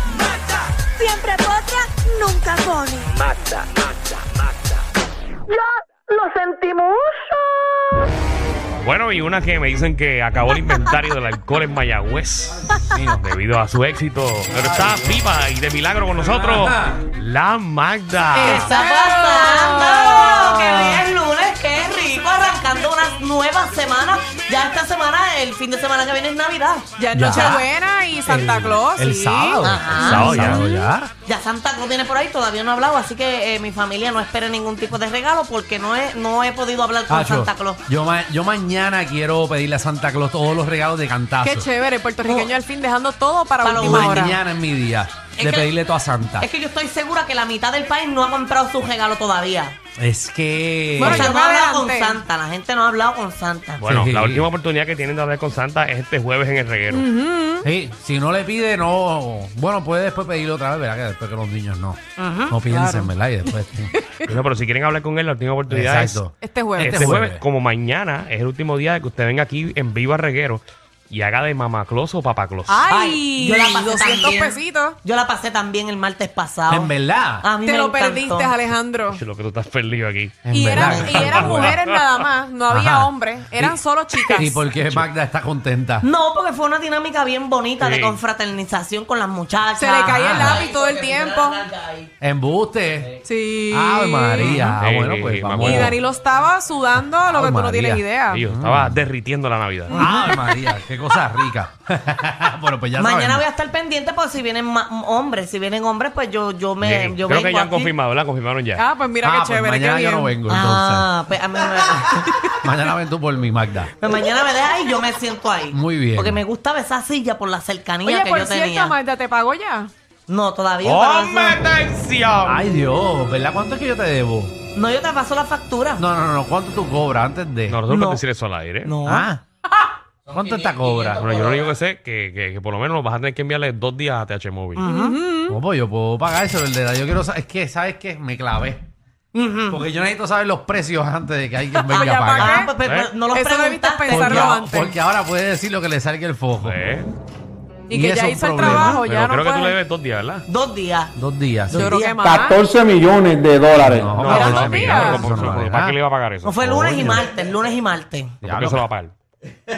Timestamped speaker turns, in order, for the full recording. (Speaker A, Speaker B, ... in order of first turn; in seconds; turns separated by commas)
Speaker A: 0.9-3.5, Speaker A: 5.5-7.4, Speaker B: 8.8-18.8, Speaker C: 12.8-13.2, Speaker C: 14.6-15.0, Speaker C: 16.2-17.0, Speaker A: 18.3-27.6, Speaker D: 18.4-21.0, Speaker D: 27.0-30.9, Speaker C: 27.1-27.6, Speaker C: 28.2-31.1, Speaker A: 29.6-30.6, Speaker B: 29.9-30.6, Speaker A: 31.2-37.8, Speaker C: 37.1-41.7, Speaker D: 41.4-44.4, Speaker A: 42.2-42.5, Speaker A: 43.6-44.4, Speaker C: 43.8-46.5, Speaker A: 45.4-45.7, Speaker A: 46.4-49.8, Speaker C: 50.0-51.3, Speaker D: 51.0-52.2, Speaker A: 51.0-53.9, Speaker B: 53.8-57.0, Speaker C: 53.8-54.5, Speaker D: 56.9-57.6, Speaker C: 57.6-62.0, Speaker A: 62.2-62.6, Speaker C: 62.5-64.0, Speaker D: 62.7-63.1, Speaker B: 64.2-66.3, Speaker C: 65.7-67.4, Speaker D: 66.4-67.2, Speaker B: 66.8-72.8, Speaker D: 72.7-75.0, Speaker A: 72.9-78.6, Speaker C: 76.7-77.5, Speaker D: 77.6-79.2, Speaker B: 79.1-82.0, Speaker C: 80.4-81.8, Speaker D: 80.5-84.8, Speaker C: 82.7-83.8, Speaker C: 84.3-86.1, Speaker A: 86.0-90.7, Speaker B: 87.8-88.2, Speaker D: 89.8-91.7, Speaker C: 90.1-90.7, Speaker C: 92.2-96.0, Speaker D: 93.2-94.7, Speaker B: 94.5-96.0, Speaker D: 95.6-98.4, Speaker C: 97.2-99.0, Speaker B: 98.3-100.1, Speaker D: 99.9-100.6, Speaker C: 99.9-103.4, Speaker A: 103.0-107.9, Speaker B: 106.8-108.8, Speaker D: 108.8-110.3, Speaker C: 109.2-111.1, Speaker A: 110.5-112.5, Speaker C: 112.3-113.9, Speaker A: 114.0-118.9, Speaker C: 115.7-116.4, Speaker D: 118.0-119.9, Speaker A: 120.3-121.6, Speaker B: 120.8-122.7, Speaker C: 122.4-124.5, Speaker A: 124.7-126.0, Speaker C: 126.0-127.8, Speaker B: 127.7-128.9, Speaker A: 127.9-128.2, Speaker A: 128.8-129.3, Speaker C: 129.0-129.4, Speaker C: 130.3-131.4, Speaker B: 131.1-134.8, Speaker A: 134.8-135.2, Speaker D: 134.8-135.6, Speaker C: 135.5-138.9, Speaker A: 139.3-139.8, Speaker C: 139.7-142.7, Speaker D: 141.7-142.7, Speaker A: 141.9-144.6, Speaker B: 142.8-143.1, Speaker D: 143.3-144.9, Speaker C: 144.1-146.8, Speaker B: 146.6-147.1, Speaker D: 147.9-149.8, Speaker C: 147.9-149.0, Speaker A: 148.6-149.0, Speaker B: 149.0-150.4, Speaker A: 150.5-151.1, Speaker C: 151.2-151.9, Speaker A: 151.7-152.5, Speaker D: 151.7-152.6, Speaker E: 152.2-154.2, Speaker C: 153.8-156.0, Speaker B: 154.2-157.2, Speaker D: 154.3-155.3, Speaker A: 156.4-158.4, Speaker C: 158.4-158.8, Speaker B: 158.4-159.1